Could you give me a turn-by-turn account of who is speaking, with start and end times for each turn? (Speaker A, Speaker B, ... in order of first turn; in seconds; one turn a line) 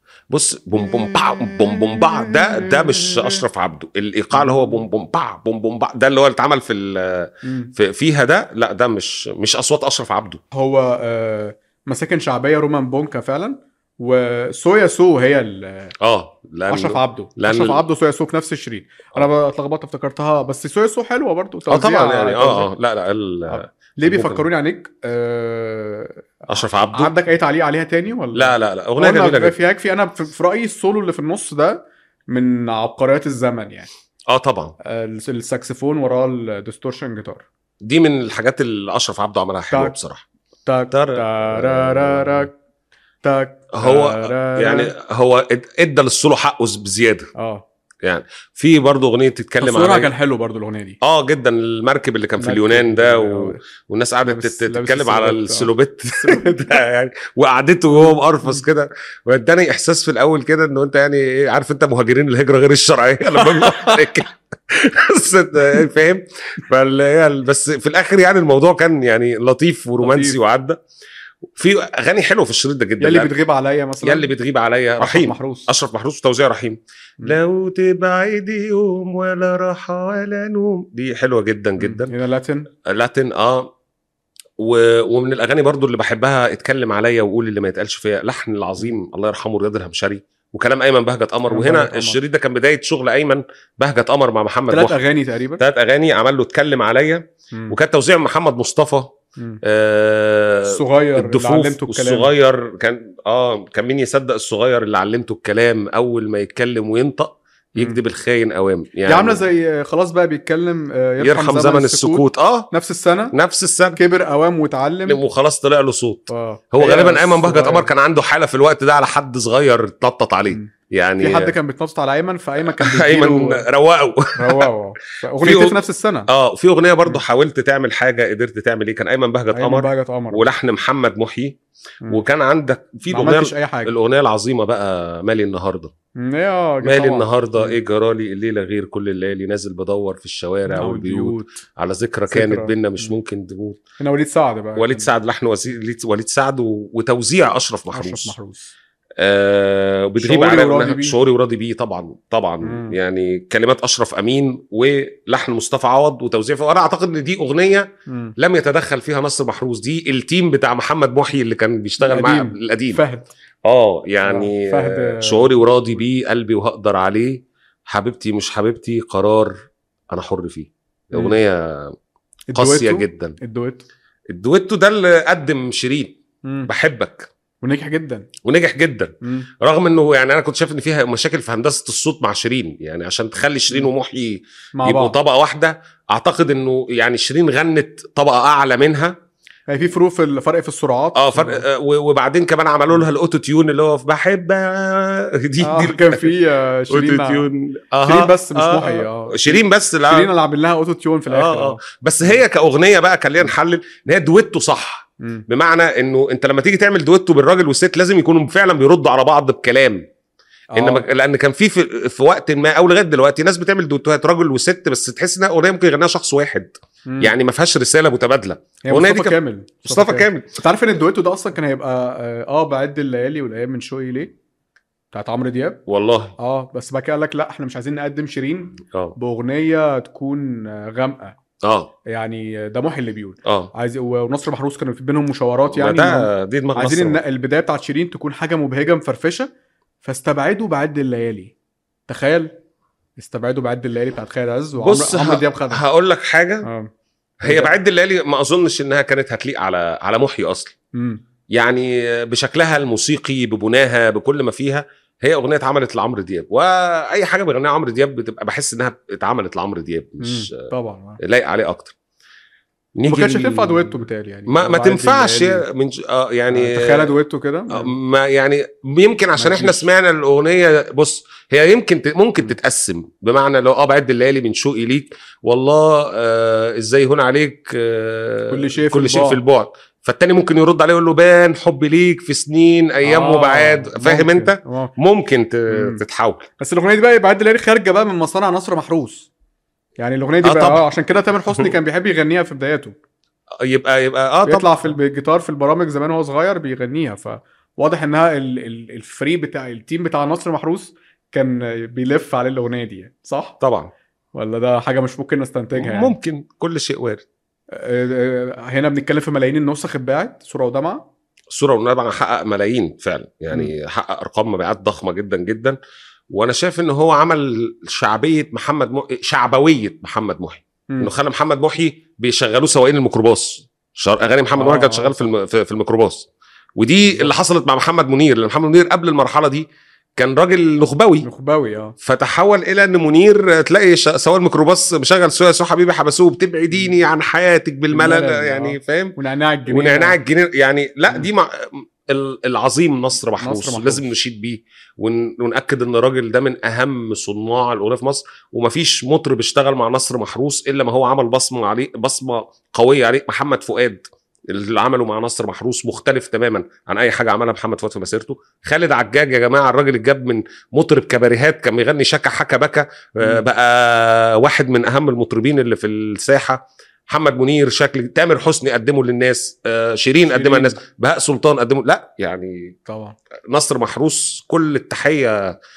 Speaker A: 0.3-10.4
Speaker B: 1.2-3.2
Speaker B: 4.3-4.8
Speaker B: 7.4-7.7
Speaker B: 10.5-15.9
Speaker A: 16.0-17.8
Speaker B: 16.7-22.7
Speaker A: 21.7-24.4
Speaker B: 23.5-33.9
Speaker A: 26.5-27.1
Speaker A: 28.3-29.6
Speaker A: 34.3-34.8
Speaker B: 34.9-37.5
Speaker A: 37.8-40.2
Speaker B: 39.7-40.0
Speaker B: 40.7-42.5
Speaker A: 40.9-42.5
Speaker B: 43.2-44.9
Speaker A: 43.8-47.3
Speaker B: 47.4-47.6
Speaker A: 48.0-50.1
Speaker B: 49.6-51.0
Speaker A: 51.0-70.8
Speaker B: 52.4-53.6
Speaker B: 54.3-56.8
Speaker B: 57.9-58.6
Speaker B: 63.4-64.1
Speaker B: 70.0-70.4
Speaker A: 71.5-73.3
Speaker B: 73.0-74.3
Speaker A: 74.0-82.1
Speaker B: 75.0-75.7
Speaker B: 81.8-82.7
Speaker A: 82.9-83.7
Speaker A: 84.6-95.0
Speaker B: 91.5-92.2
Speaker B: 94.7-95.6
Speaker A: 95.6-109.4
Speaker B: 100.7-102.3
Speaker B: 109.1-113.3
Speaker A: 111.2-112.7
Speaker A: 113.3-114.0
Speaker B: 114.0-115.2
Speaker A: 115.1-121.5
Speaker B: 116.3-117.9
Speaker B: 120.5-123.6
Speaker A: 122.6-124.6
Speaker B: 124.4-126.3
Speaker A: 125.4-125.8
Speaker A: 126.3-131.6
Speaker B: 129.5-130.5
Speaker A: 132.1-135.9
Speaker B: 133.1-133.9
Speaker B: 136.2-137.8
Speaker A: 136.8-143.8
Speaker B: 140.7-141.6
Speaker B: 142.3-143.1
Speaker B: 144.0-145.1
Speaker A: 144.8-148.3
Speaker B: 147.9-148.7
Speaker A: 149.2-163.0
Speaker B: 150.2-151.2
Speaker B: 152.6-152.9
Speaker B: 158.1-158.3
Speaker B: 162.0-163.3
Speaker A: 163.7-169.5
Speaker B: 164.2-166.0
Speaker A: 170.1-171.9
Speaker B: 172.5-173.8
Speaker A: 172.5-173.4
Speaker A: 174.3-176.1
Speaker A: 176.7-177.3
Speaker B: 177.6-178.3
Speaker A: 178.4-189.1
Speaker B: 179.2-179.5
Speaker B: 184.8-185.2
Speaker B: 189.7-191.6
Speaker A: 191.1-196.3
Speaker B: 195.6-197.5
Speaker A: 196.9-200.3
Speaker B: 198.0-202.4
Speaker A: 201.3-210.0
Speaker B: 210.7-211.1
Speaker A: 210.8-220.5
Speaker B: 217.1-217.3
Speaker B: 218.9-224.3
Speaker B: 225.1-225.8
Speaker A: 225.9-226.3
Speaker B: 226.4-231.3
Speaker A: 231.6-231.9
Speaker B: 232.1-239.5
Speaker A: 233.4-233.7
Speaker A: 235.7-237.2
Speaker B: 240.0-241.5
Speaker B: 242.1-242.5
Speaker B: 243.2-245.8
Speaker A: 244.8-246.7
Speaker B: 246.6-246.9
Speaker A: 247.4-250.7
Speaker B: 247.4-247.8
Speaker B: 251.0-251.2
Speaker A: 251.5-260.6
Speaker B: 260.2-261.2
Speaker A: 261.2-261.9
Speaker A: 263.0-263.9
Speaker B: 263.0-265.6
Speaker A: 264.5-267.1
Speaker B: 266.5-267.9
Speaker A: 267.7-286.5
Speaker B: 269.4-269.9
Speaker B: 278.5-279.4
Speaker B: 283.0-284.9
Speaker B: 285.7-286.0
Speaker B: 286.6-289.3
Speaker B: 290.0-293.0
Speaker A: 290.4-290.9
Speaker A: 293.6-294.9
Speaker B: 294.5-303.6
Speaker A: 303.6-303.9
Speaker B: 304.4-306.1
Speaker A: 305.8-307.2
Speaker B: 307.7-311.0
Speaker A: 311.5-315.8
Speaker A: 316.3-329.6
Speaker B: 324.6-325.2
Speaker B: 327.1-327.4
Speaker A: 330.2-331.3
Speaker B: 331.2-331.9
Speaker A: 332.0-339.1
Speaker B: 337.9-340.2
Speaker A: 339.7-372.7
Speaker B: 343.4-344.1
Speaker B: 370.3-370.8
Speaker B: 372.9-373.1
Speaker A: 373.5-375.4